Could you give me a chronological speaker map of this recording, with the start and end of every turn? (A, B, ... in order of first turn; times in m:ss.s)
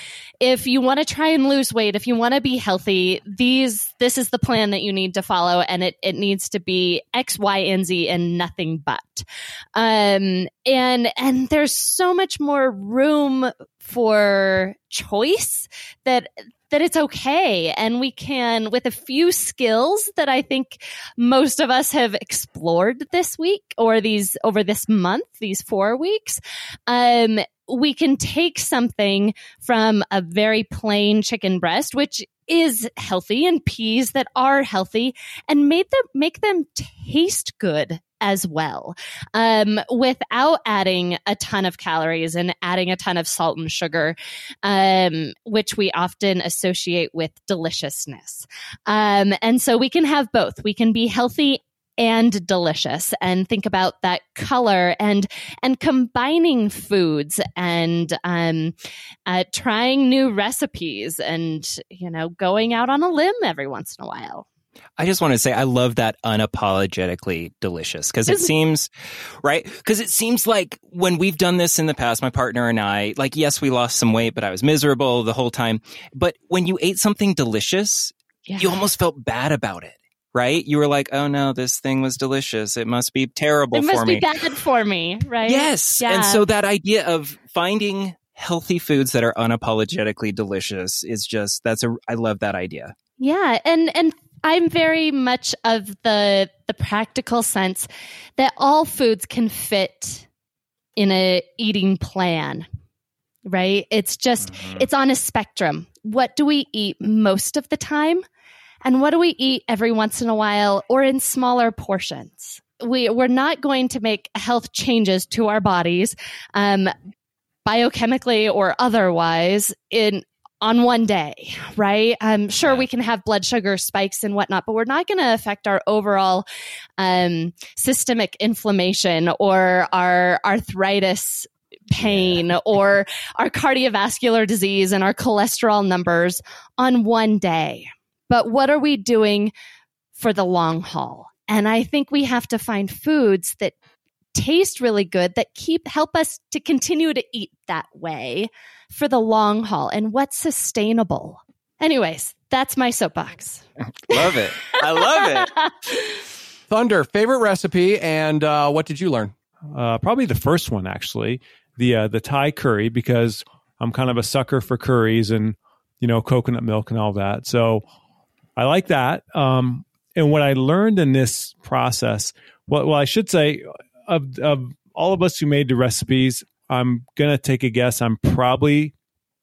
0:00.4-0:58.7 A
0:59.3-1:04.5 A
1:05.0-1:24.4 B
1:18.5-1:18.8 A
1:23.7-1:26.4 A
1:25.4-1:32.9 B
1:33.2-1:40.3 A
1:41.0-1:42.7 A
1:43.5-1:48.2 A
1:48.8-1:56.9 A
1:57.7-2:06.4 A
2:07.0-2:19.5 A
2:12.0-2:12.3 B
2:20.2-2:23.8 A
2:24.3-2:34.4 A
2:34.1-2:35.5 B
2:35.2-2:36.1 A
2:36.7-2:39.3 C
2:39.7-2:47.8 D
2:48.6-2:58.9 D